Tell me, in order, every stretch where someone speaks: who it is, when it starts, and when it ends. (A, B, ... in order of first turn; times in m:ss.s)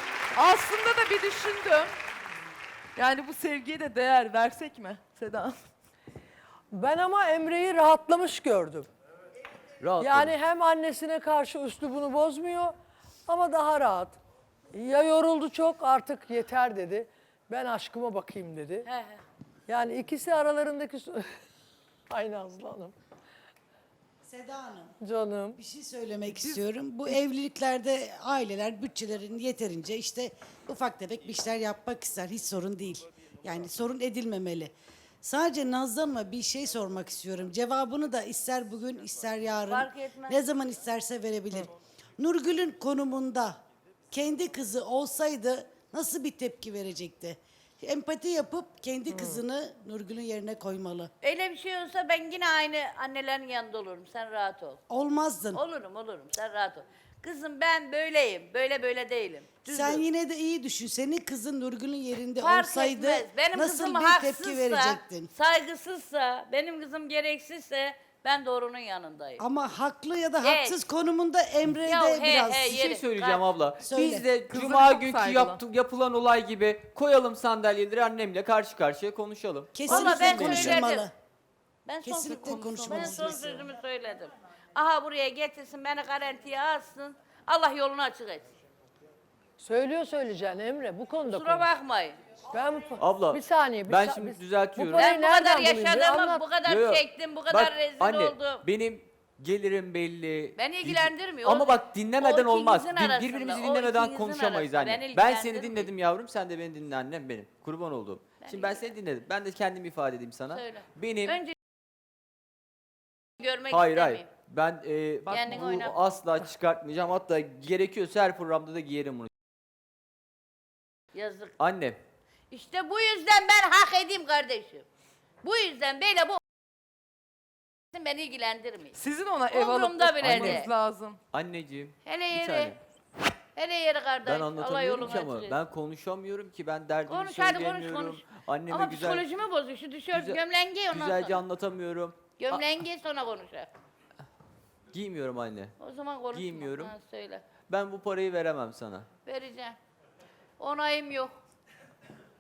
0:00.3-0:01.9 A
0:03.0-0:05.6 A
0:06.7-0:08.9 B
0:09.8-0:10.4 C
0:10.0-0:12.7 B
0:13.2-0:14.2 B
0:14.7-0:18.8 B
0:18.8-0:19.2 D
0:19.7-0:21.2 B
0:22.1-0:22.9 B
0:24.2-0:25.0 E
0:25.0-0:25.6 B
0:25.6-0:43.6 E
0:39.7-0:40.4 D
0:44.1-0:51.1 E
0:49.1-0:49.4 B
0:51.2-0:54.8 D
0:54.9-0:55.6 E
0:55.5-1:00.0 D
0:59.6-1:05.3 E
1:02.4-1:09.4 D
1:09.4-1:12.7 E
1:10.4-1:10.8 D
1:11.8-1:13.5 D
1:12.6-1:20.8 C
1:13.8-1:14.3 E
1:14.4-1:15.6 A
1:19.7-1:21.1 E
1:19.8-1:21.1 D
1:21.8-1:28.4 D
1:22.0-1:23.6 E
1:29.6-1:31.7 B
1:31.2-1:32.2 D
1:32.5-1:36.5 B
1:33.0-1:35.1 C
1:35.0-1:38.6 D
1:36.6-1:51.4 C
1:40.6-1:45.9 D
1:48.4-1:48.9 D
1:50.5-1:51.5 D
1:53.4-1:54.3 D
1:53.7-1:59.3 C
1:55.2-1:55.8 A
1:55.3-1:56.0 D
2:01.1-2:01.5 D
2:01.6-2:02.0 C
2:02.5-2:04.8 D
2:05.4-2:06.4 D
2:07.9-2:09.0 D
2:08.9-2:11.2 A
2:09.5-2:10.7 D
2:10.2-2:10.6 C
2:11.3-2:12.8 C
2:12.0-2:12.7 D
2:13.5-2:15.6 D
2:14.2-2:19.2 C
2:17.1-2:21.4 D
2:20.1-2:22.6 C
2:22.4-2:23.7 D
2:24.9-2:25.8 C
2:25.8-2:27.4 D
2:26.3-2:26.9 C
2:27.7-2:29.1 C
2:29.2-2:29.8 D
2:30.6-2:31.3 D